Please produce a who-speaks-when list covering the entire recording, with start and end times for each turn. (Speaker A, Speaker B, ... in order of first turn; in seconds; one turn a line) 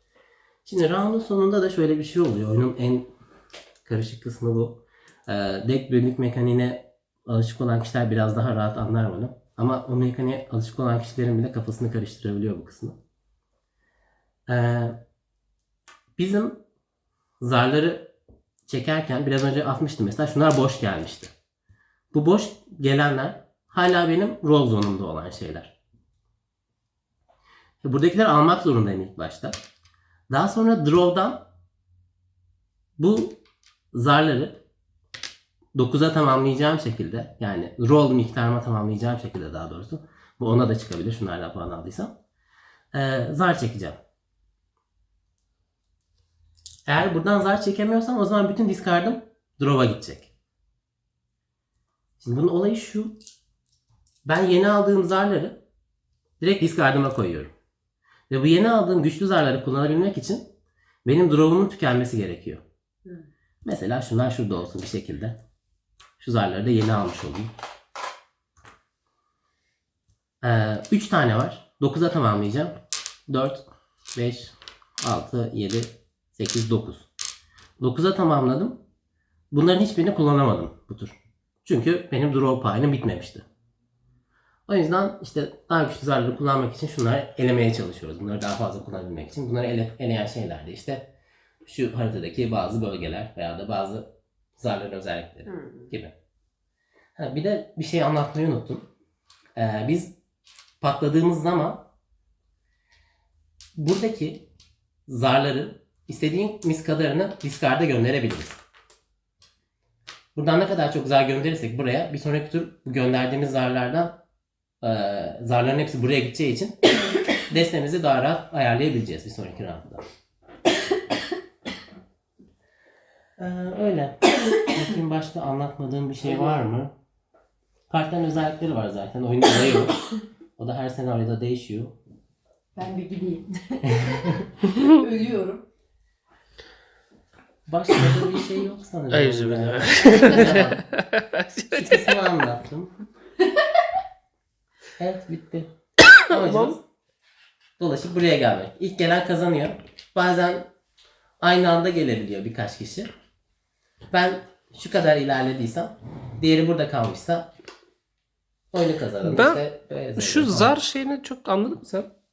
Speaker A: 0.6-3.1
Speaker A: 3.9-13.0
Speaker A: 14.5-15.0
Speaker A: 16.2-16.6
Speaker A: 17.4-18.1
Speaker A: 18.7-21.3
Speaker A: 22.1-25.8
Speaker A: 27.8-29.6
Speaker A: 30.3-31.4
Speaker A: 33.0-33.4
Speaker A: 33.9-34.6
Speaker A: 35.8-42.1
Speaker A: 42.9-44.0
Speaker A: 46.9-50.3
Speaker A: 52.2-53.1
Speaker A: 54.2-55.6
Speaker A: 56.4-57.5
Speaker A: 58.3-60.5
Speaker A: 61.0-62.6
Speaker A: 63.6-65.4
Speaker A: 66.2-67.5
Speaker A: 70.4-72.8
Speaker A: 73.3-73.6
Speaker A: 74.1-77.1
Speaker A: 77.8-78.8
Speaker A: 79.5-83.5
Speaker A: 84.7-91.1
Speaker A: 91.7-96.1
Speaker B: 95.5-96.0
Speaker A: 97.2-98.9
Speaker A: 99.6-100.1
Speaker A: 100.8-101.9
Speaker A: 103.8-104.5
Speaker A: 105.1-108.6
Speaker A: 110.3-114.2
Speaker A: 114.8-116.8
Speaker A: 117.5-120.0
Speaker A: 123.4-126.9
Speaker A: 127.9-130.0
Speaker A: 130.6-132.0
Speaker B: 132.8-135.6
Speaker A: 137.7-140.8
Speaker C: 139.1-142.2
Speaker A: 141.7-142.9
Speaker A: 145.0-145.7
Speaker C: 146.1-146.8
Speaker A: 146.3-146.8
Speaker A: 147.8-150.7
Speaker A: 151.4-153.1
Speaker A: 154.1-157.5
Speaker A: 158.7-160.8
Speaker C: 159.2-159.6
Speaker C: 160.2-162.1